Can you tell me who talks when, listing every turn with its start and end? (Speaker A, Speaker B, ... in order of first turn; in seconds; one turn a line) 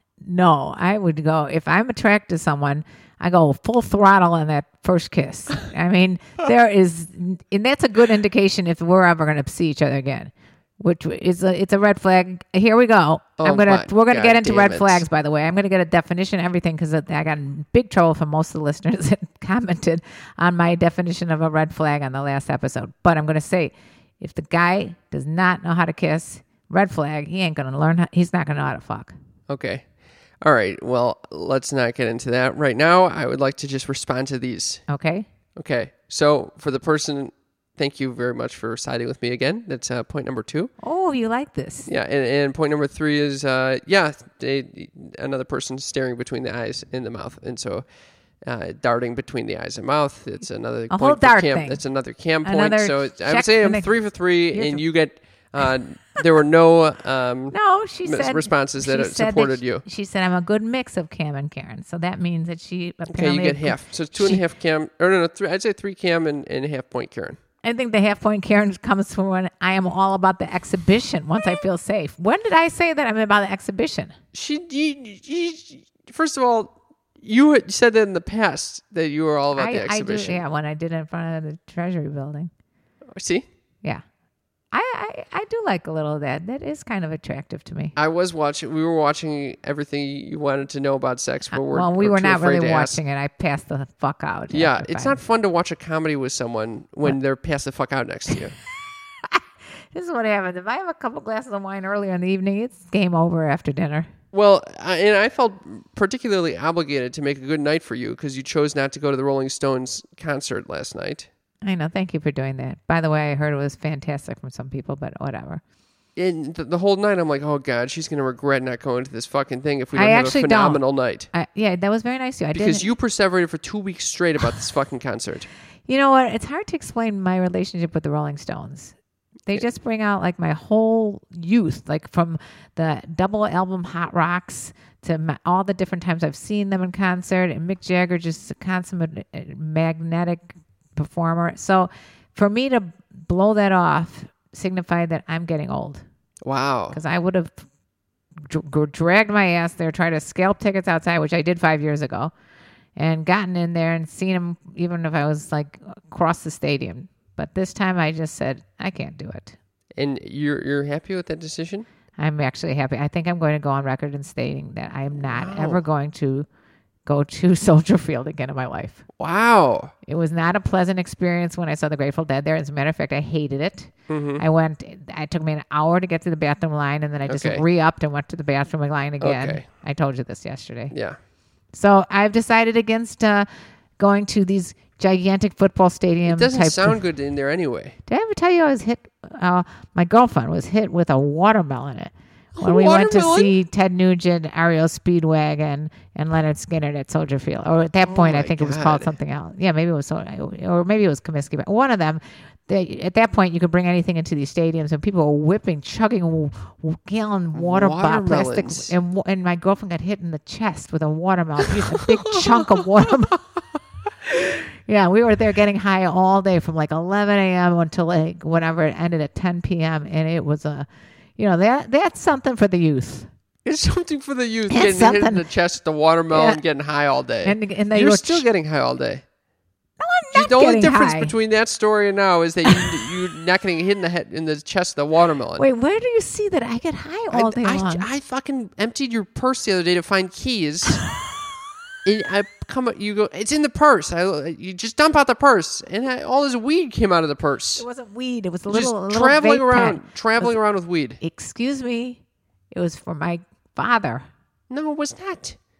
Speaker A: 0.2-29.1
Speaker B: 13.4-15.0
Speaker B: 29.5-29.8
Speaker B: 30.4-34.8
Speaker A: 34.9-35.3
Speaker B: 35.5-40.7
Speaker A: 40.8-41.9
Speaker B: 41.8-47.9
Speaker B: 48.4-59.8
Speaker A: 50.9-51.8
Speaker A: 52.4-53.9
Speaker A: 54.5-54.8
Speaker A: 57.5-64.4
Speaker B: 63.1-67.4
Speaker A: 67.6-74.1
Speaker B: 74.3-80.4
Speaker A: 79.5-82.5
Speaker B: 83.1-83.5
Speaker A: 84.7-87.9
Speaker B: 88.0-93.0
Speaker A: 91.5-95.2
Speaker B: 94.5-98.5
Speaker A: 99.9-104.1
Speaker B: 104.3-111.3
Speaker A: 111.6-115.6
Speaker B: 116.2-121.3
Speaker A: 119.9-122.9
Speaker B: 122.5-125.5
Speaker A: 125.9-128.9
Speaker A: 129.5-146.0
Speaker B: 146.4-147.0
Speaker A: 146.9-147.7
Speaker A: 148.4-152.3
Speaker A: 153.0-159.6
Speaker B: 159.9-161.9
Speaker A: 162.2-166.5
Speaker B: 165.2-165.8
Speaker A: 167.1-169.1
Speaker B: 169.1-169.9
Speaker A: 170.1-180.9
Speaker B: 174.1-174.4
Speaker B: 177.3-177.6
Speaker B: 179.2-179.7
Speaker B: 180.9-181.2
Speaker A: 181.7-183.5
Speaker A: 184.0-187.0
Speaker B: 186.2-188.0
Speaker A: 188.1-213.4
Speaker B: 192.5-193.6
Speaker B: 198.0-199.2
Speaker B: 207.5-208.9
Speaker B: 211.9-213.4
Speaker A: 214.2-223.3
Speaker B: 223.6-229.2
Speaker A: 224.7-225.4
Speaker A: 226.3-226.6
Speaker A: 227.4-228.5
Speaker A: 230.0-231.3
Speaker B: 230.3-235.7
Speaker A: 235.6-238.1
Speaker B: 237.3-241.0
Speaker B: 242.0-247.8
Speaker A: 247.8-250.6
Speaker B: 248.7-251.2
Speaker A: 251.2-252.2
Speaker A: 252.7-254.2
Speaker B: 254.7-255.6